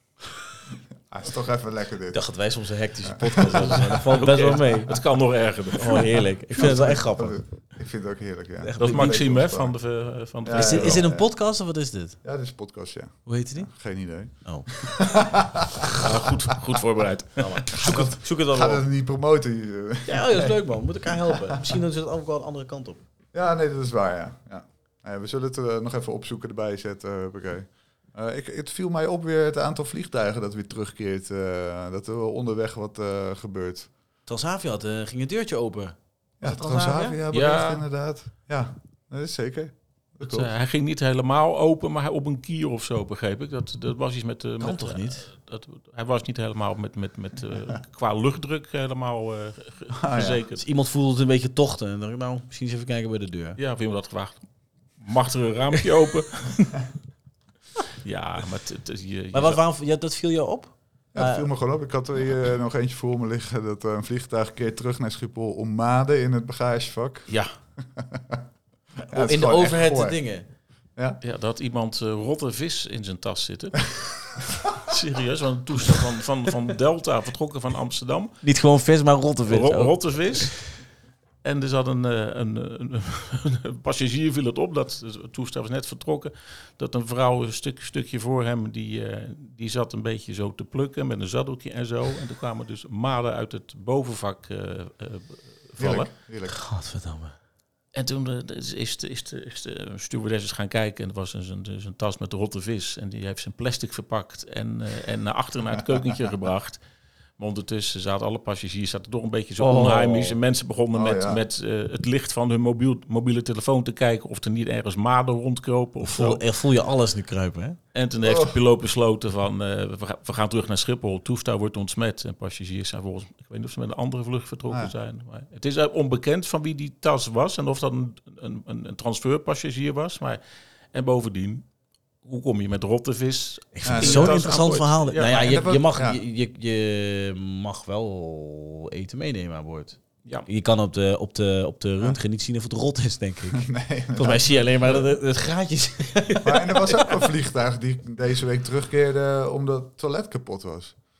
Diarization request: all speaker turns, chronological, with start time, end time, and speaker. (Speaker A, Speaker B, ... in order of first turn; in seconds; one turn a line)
Speaker A: 1.1-2.2
Speaker B: 2.1-5.0
Speaker A: 3.0-4.0
Speaker C: 3.4-6.2
Speaker B: 5.8-7.4
Speaker A: 6.5-9.8
Speaker B: 8.6-9.2
Speaker C: 8.8-11.0
Speaker A: 10.4-11.3
Speaker B: 10.5-12.2
Speaker A: 12.2-16.0
Speaker B: 13.2-13.7
Speaker B: 14.4-14.9
Speaker C: 16.0-17.8
Speaker B: 17.4-18.8
Speaker A: 17.8-21.8
Speaker B: 20.1-23.0
Speaker A: 23.3-33.9
Speaker B: 34.2-37.2
Speaker A: 36.4-40.5
Speaker C: 37.3-37.8
Speaker C: 40.2-50.6
Speaker B: 44.6-45.2
Speaker A: 49.9-50.4
Speaker B: 50.6-53.6
Speaker C: 53.6-54.4
Speaker C: 55.0-56.9
Speaker C: 58.0-59.6
Speaker B: 59.3-61.5
Speaker A: 61.1-68.4
Speaker C: 67.3-67.5
Speaker B: 69.0-70.5
Speaker A: 69.1-70.2
Speaker C: 71.2-78.4
Speaker B: 78.4-80.5
Speaker C: 79.5-80.6
Speaker C: 81.4-96.1
Speaker A: 95.8-96.5
Speaker B: 96.5-97.3
Speaker C: 97.9-106.8
Speaker C: 107.4-116.4
Speaker B: 109.6-110.4
Speaker A: 110.9-111.4
Speaker B: 116.0-117.8
Speaker C: 117.9-130.4
Speaker A: 118.2-118.6
Speaker C: 130.9-131.7
Speaker C: 132.2-135.5
Speaker B: 133.7-146.9
Speaker A: 133.8-134.6
Speaker A: 135.3-136.2
Speaker A: 143.5-145.0
Speaker A: 146.4-151.0